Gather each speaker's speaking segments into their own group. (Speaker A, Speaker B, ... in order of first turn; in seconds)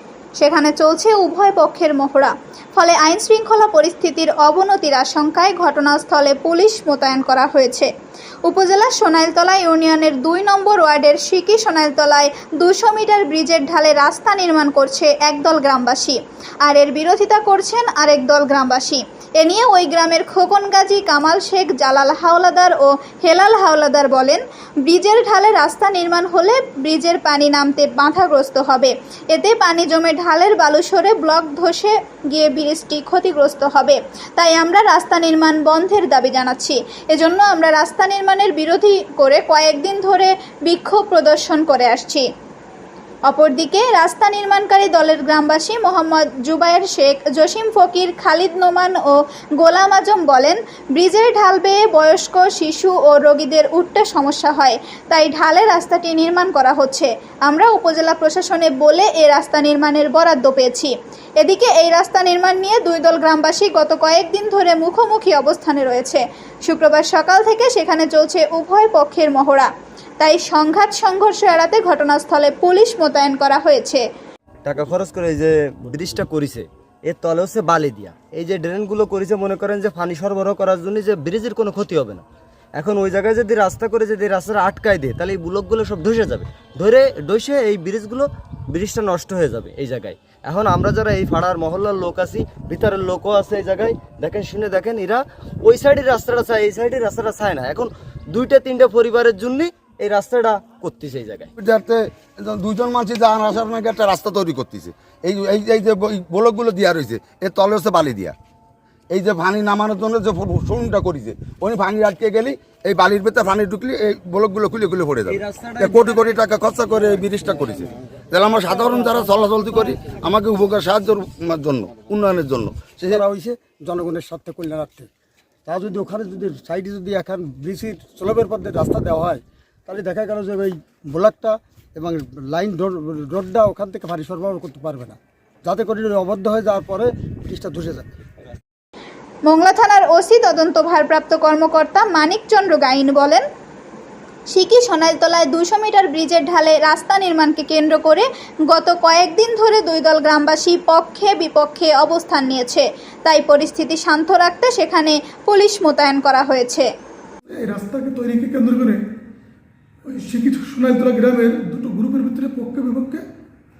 Speaker A: 0.4-7.9, 8.4-42.2, 43.3-49.0, 49.6-69.7, 70.2-74.0, 139.5-143.4, 144.5-156.9
Speaker B: 74.6-82.2, 82.8-101.5, 115.3-116.2
Speaker C: 101.6-108.3, 109.1-123.2
Speaker D: 123.1-125.1, 125.7-138.1
Speaker E: 157.5-159.0, 160.1-163.2